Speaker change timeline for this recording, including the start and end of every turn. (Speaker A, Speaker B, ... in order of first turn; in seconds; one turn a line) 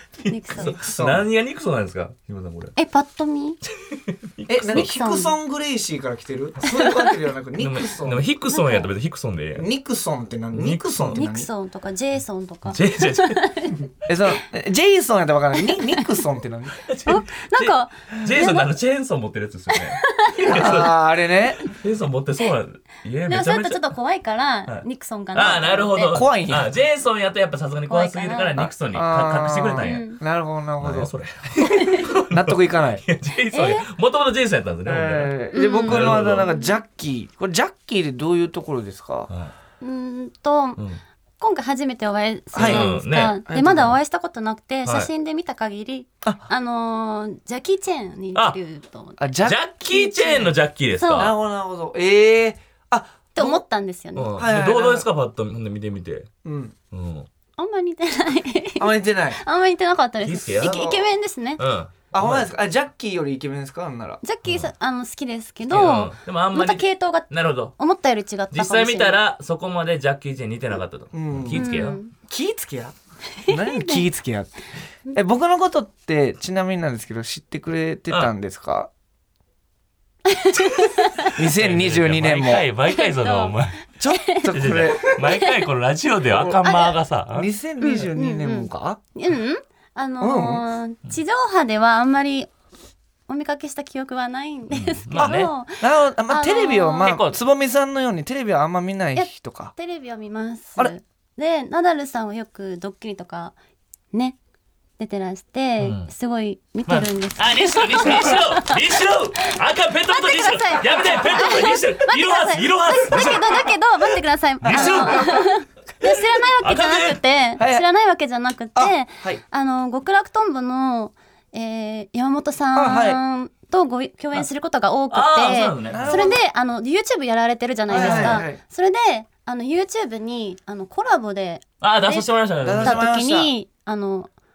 Speaker A: 0.2-2.7
Speaker B: 0.3-0.7
Speaker C: 0.6-1.2
Speaker B: 2.8-3.6
Speaker A: 3.6-4.9
Speaker C: 4.5-8.2
Speaker B: 4.7-5.3
Speaker B: 6.7-7.1
Speaker A: 7.6-9.7
Speaker B: 8.5-8.9
Speaker C: 9.6-11.5
Speaker A: 10.5-11.2
Speaker B: 11.1-13.8
Speaker A: 12.7-13.5
Speaker C: 14.0-16.8
Speaker B: 15.6-16.1
Speaker A: 16.8-21.0
Speaker B: 17.1-18.7
Speaker B: 19.7-20.9
Speaker C: 20.5-21.7
Speaker A: 21.6-23.8
Speaker B: 23.3-26.2
Speaker A: 24.7-30.1
Speaker C: 26.1-26.7
Speaker B: 27.9-28.7
Speaker C: 28.9-31.1
Speaker B: 29.8-30.2
Speaker A: 30.8-36.5
Speaker B: 31.7-32.1
Speaker C: 32.3-33.0
Speaker B: 33.5-33.9
Speaker C: 34.8-39.3
Speaker B: 35.5-36.7
Speaker B: 39.8-40.8
Speaker B: 41.4-49.3
Speaker C: 42.5-42.9
Speaker A: 42.5-43.4
Speaker C: 43.5-44.0
Speaker C: 49.2-50.5
Speaker A: 49.4-51.4
Speaker B: 50.1-50.5
Speaker B: 51.0-51.3
Speaker C: 51.1-53.6
Speaker B: 53.4-54.3
Speaker A: 54.1-56.3
Speaker C: 54.4-55.1
Speaker C: 56.4-56.8
Speaker A: 56.9-57.3
Speaker B: 57.6-61.6
Speaker C: 58.8-59.4
Speaker A: 60.2-60.9
Speaker C: 60.6-61.0
Speaker A: 61.6-62.5
Speaker C: 62.1-64.2
Speaker B: 64.2-69.2
Speaker A: 64.4-64.7
Speaker A: 65.7-67.8
Speaker A: 68.5-72.0
Speaker C: 71.1-71.7
Speaker B: 71.5-72.1
Speaker C: 72.3-72.9
Speaker B: 73.4-74.0
Speaker C: 73.5-74.6
Speaker C: 75.1-78.9
Speaker B: 80.2-81.4
Speaker C: 81.3-82.7
Speaker A: 81.4-83.8
Speaker B: 82.9-83.5
Speaker C: 84.0-85.2
Speaker B: 84.1-84.5
Speaker A: 84.5-87.5
Speaker B: 85.2-85.6
Speaker B: 86.6-87.0
Speaker C: 87.3-89.0
Speaker B: 87.8-92.5
Speaker C: 90.2-90.6
Speaker B: 93.3-97.1
Speaker A: 94.7-95.5
Speaker C: 95.2-99.7
Speaker A: 97.0-97.4
Speaker B: 99.2-103.5
Speaker B: 105.0-109.0
Speaker A: 105.8-106.1
Speaker A: 106.9-113.7
Speaker B: 110.1-132.3
Speaker A: 114.6-115.5
Speaker C: 114.6-115.2
Speaker A: 116.6-117.2
Speaker C: 117.6-117.9
Speaker C: 118.8-119.4
Speaker C: 122.7-123.2
Speaker A: 125.1-126.3
Speaker C: 125.9-126.4
Speaker C: 127.9-128.6
Speaker A: 127.9-128.4
Speaker A: 131.8-133.0
Speaker C: 132.6-133.5
Speaker B: 132.8-134.3